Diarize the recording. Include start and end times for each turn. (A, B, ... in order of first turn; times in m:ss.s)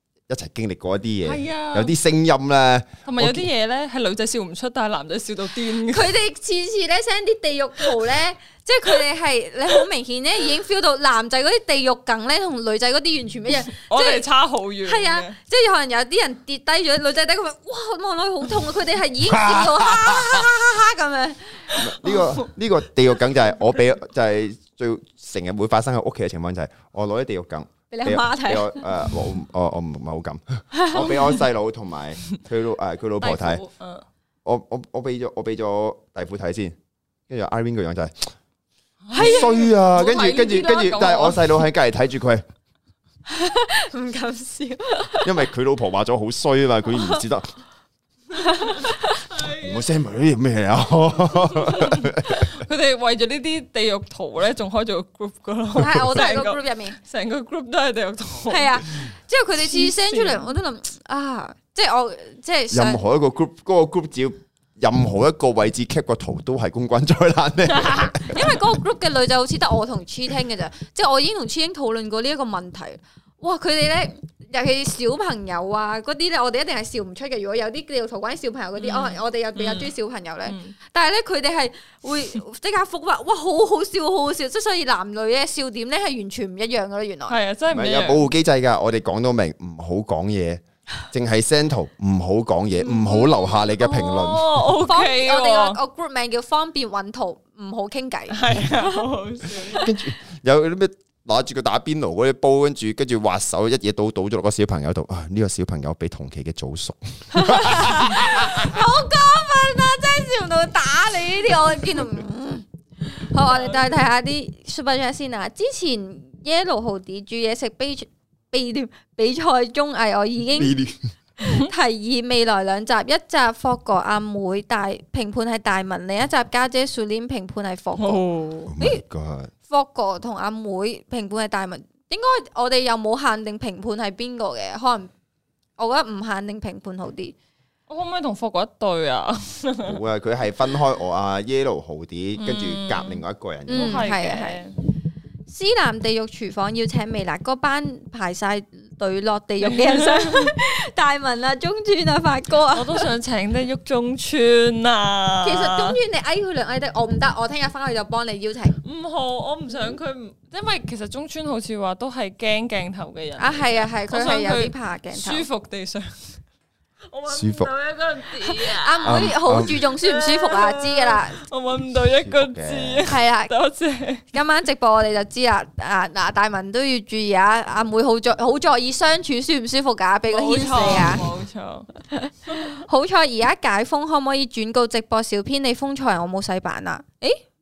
0:00.3-0:03.5 A
0:01.2-0:01.9 B
0:03.0-0:06.2 B
0:05.9-0:14.2 C
0:13.8-0:15.4 B
0:14.8-0:21.8 C
0:19.3-0:20.5 A
0:21.8-0:33.6 A
0:27.9-0:28.9 C
0:30.7-0:31.4 C
0:33.2-0:34.0 B
0:34.4-0:36.8 A
0:37.3-0:38.3 A
0:39.1-0:41.5 B
0:39.1-0:39.7 C
0:39.1-0:42.4 A
0:43.3-0:45.3 C
0:45.2-0:47.5 A
0:48.3-0:49.2 C
0:48.5-0:49.8 B
0:49.4-0:52.6 A
0:51.5-0:58.8 B
0:55.8-0:57.0 C
0:58.5-1:03.0 C
0:59.6-1:00.6 B
1:02.7-1:08.5 A
1:08.3-1:27.4 C
1:18.8-1:19.9 B
1:20.4-1:20.8 B
1:27.3-1:28.3 B
1:27.7-1:34.6 A
1:32.8-1:33.6 C
1:33.8-1:35.8 B
1:34.8-1:39.0 C
1:38.3-1:39.9 B
1:39.7-1:48.8 A
1:47.3-2:00.8 C
1:53.4-1:54.0 B
2:00.5-2:01.1 A
2:01.4-2:08.2 C
2:08.0-2:08.7 B
2:08.7-2:09.5 A
2:09.7-2:15.1 C
2:15.8-2:17.4 C
2:17.9-2:20.0 B
2:19.8-2:24.1 A
2:22.4-2:24.8 B
2:23.7-2:24.6 C
2:25.5-2:33.1 C
2:29.7-2:30.5 B
2:32.7-2:36.0 B
2:35.4-2:38.8 C
2:38.8-2:46.4 B
2:43.4-2:45.4 C
2:47.1-2:54.2 B
2:47.3-2:47.7 A
2:48.4-2:51.4 C
2:49.0-2:49.8 A
2:52.2-2:53.1 A
2:53.1-2:53.5 C
2:54.3-3:01.3 C
3:00.3-3:01.9 B
3:02.1-3:07.4 C
3:02.5-3:02.8 B